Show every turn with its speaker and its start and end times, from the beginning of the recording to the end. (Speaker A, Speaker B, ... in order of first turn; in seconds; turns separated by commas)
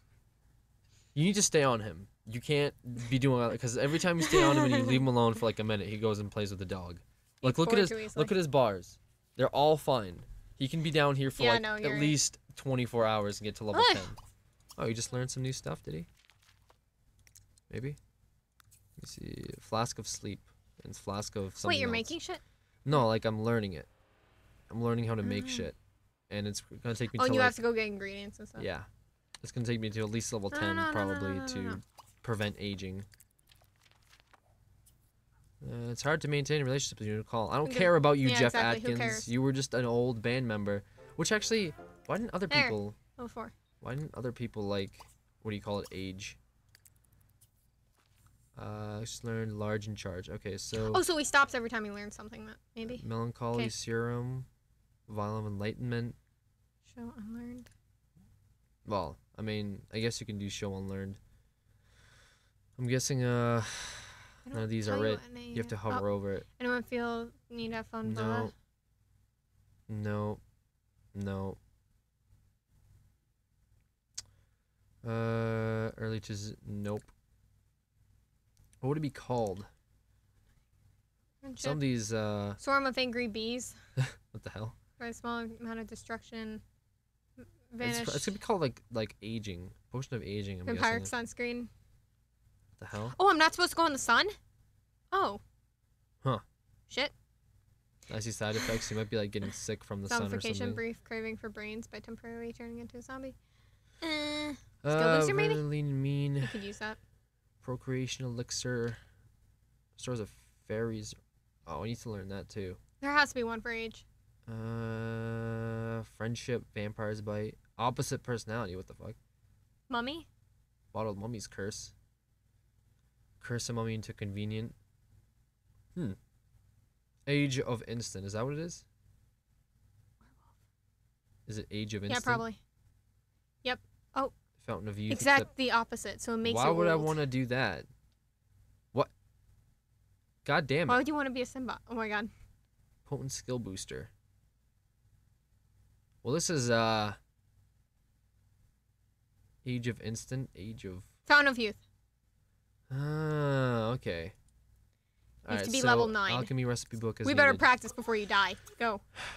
Speaker A: 1.1-14.2, Speaker B: 4.2-5.0, Speaker B: 7.4-8.3, Speaker B: 11.4-12.2, Speaker B: 13.7-14.1, Speaker A: 14.8-16.1, Speaker A: 17.7-18.0, Speaker A: 19.0-22.1, Speaker B: 21.6-22.4, Speaker A: 22.8-23.9, Speaker A: 24.7-25.8, Speaker B: 25.2-25.7, Speaker A: 26.3-27.6, Speaker B: 27.1-28.6, Speaker A: 28.6-28.9, Speaker A: 29.4-33.0, Speaker B: 30.5-31.8, Speaker A: 35.6-43.0, Speaker B: 37.6-39.3, Speaker B: 42.5-43.5, Speaker A: 43.8-46.4, Speaker A: 48.5-51.0, Speaker B: 50.8-53.7, Speaker A: 52.9-54.5, Speaker A: 55.1-56.2, Speaker B: 56.9-57.7, Speaker A: 58.9-61.2, Speaker A: 62.8-66.4, Speaker B: 64.5-66.0, Speaker B: 66.6-68.5, Speaker A: 68.0-68.5, Speaker A: 69.9-70.4, Speaker A: 71.1-71.6, Speaker A: 75.0-77.1, Speaker A: 78.8-79.7, Speaker B: 81.4-81.8, Speaker A: 81.6-82.6, Speaker B: 82.6-83.7, Speaker A: 84.0-84.8, Speaker B: 85.0-86.6, Speaker B: 87.7-88.3, Speaker A: 87.8-91.1, Speaker B: 90.7-91.7, Speaker A: 92.8-93.2, Speaker B: 93.1-94.3, Speaker B: 95.1-95.4, Speaker A: 98.1-100.8, Speaker B: 100.1-103.3, Speaker B: 104.0-105.6, Speaker A: 104.8-106.6, Speaker B: 106.4-107.0, Speaker A: 107.6-109.0, Speaker A: 110.0-112.8, Speaker B: 113.0-114.0, Speaker A: 114.5-119.2, Speaker B: 119.9-120.3, Speaker A: 120.9-121.9, Speaker A: 123.4-124.7, Speaker A: 127.2-128.8, Speaker A: 131.5-132.4, Speaker B: 132.1-132.6, Speaker B: 133.6-134.3, Speaker A: 134.6-135.5, Speaker B: 135.1-137.2, Speaker A: 136.4-137.9, Speaker A: 140.4-141.0, Speaker B: 140.9-142.3, Speaker A: 143.1-144.1, Speaker A: 146.2-147.2, Speaker A: 149.6-151.1, Speaker B: 151.3-151.8, Speaker A: 152.9-154.3, Speaker A: 155.4-157.7, Speaker B: 155.5-156.5, Speaker B: 157.2-159.0